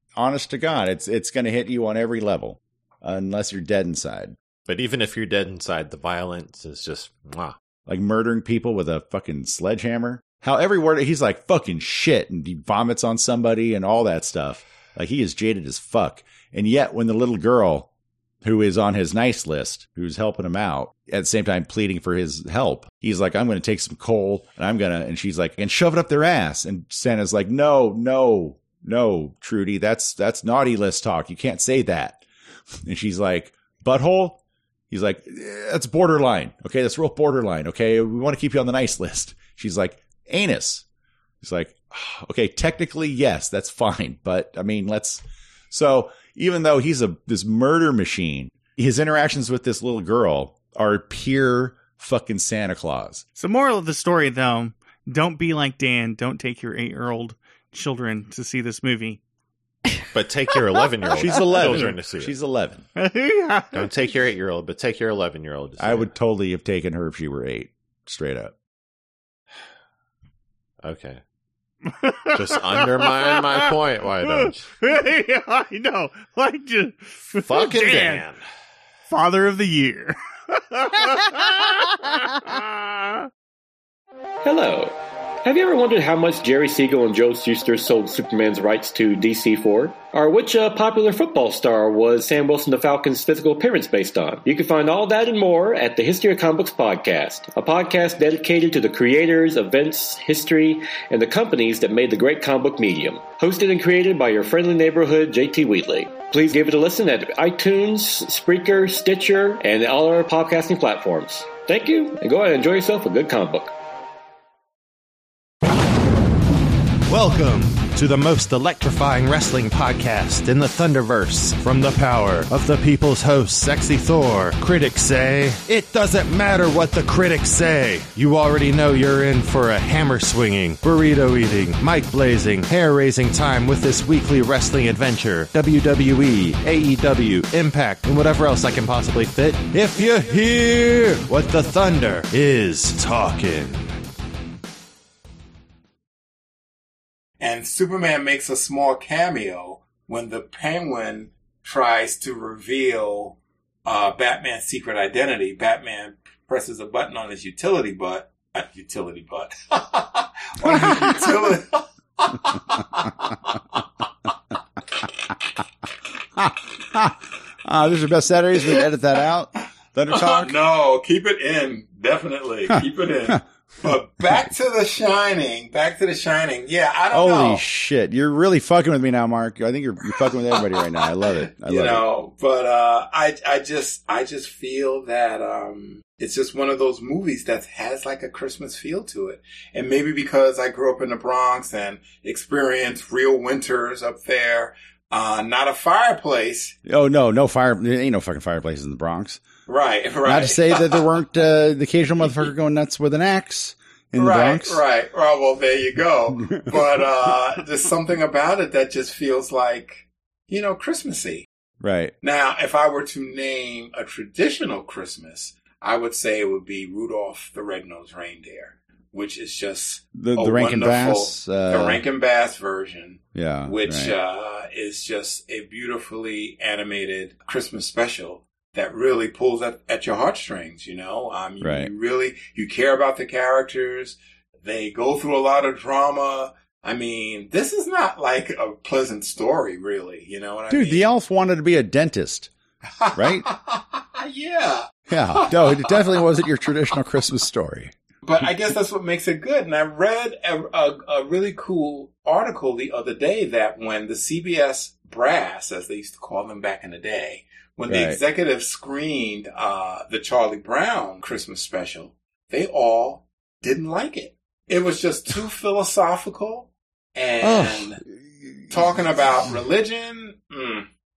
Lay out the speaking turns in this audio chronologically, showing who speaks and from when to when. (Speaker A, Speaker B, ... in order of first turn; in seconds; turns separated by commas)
Speaker A: 0.1-4.3, Speaker B: 4.7-7.5, Speaker A: 7.9-17.9, Speaker A: 18.4-32.2, Speaker A: 32.8-40.8, Speaker A: 41.4-53.2, Speaker C: 53.4-59.2, Speaker B: 60.1-62.3, Speaker A: 61.1-62.8, Speaker C: 61.6-61.9, Speaker C: 63.0-63.9, Speaker B: 63.7-66.1, Speaker A: 65.8-68.5, Speaker B: 70.8-71.2, Speaker C: 71.9-73.7, Speaker B: 72.3-74.7, Speaker C: 74.3-78.2, Speaker B: 77.3-78.4, Speaker C: 79.1-83.3, Speaker D: 84.4-113.7, Speaker E: 117.1-143.9, Speaker F: 147.4-163.5, Speaker A: 160.6-161.5, Speaker A: 166.4-170.6, Speaker F: 170.2-177.6, Speaker A: 177.1-182.0, Speaker F: 180.2-196.8, Speaker A: 196.8-199.4, Speaker F: 199.7-201.0, Speaker A: 200.2-204.8, Speaker F: 204.2-211.5, Speaker A: 206.4-207.0, Speaker A: 211.8-212.1, Speaker F: 212.2-241.0, Speaker A: 220.1-222.0, Speaker A: 223.3-224.1, Speaker A: 231.6-231.9, Speaker A: 240.7-242.5, Speaker F: 243.0-246.3, Speaker A: 243.1-243.5, Speaker A: 245.1-247.9, Speaker F: 248.2-268.0, Speaker A: 257.9-258.2, Speaker A: 267.4-269.0, Speaker F: 268.7-270.9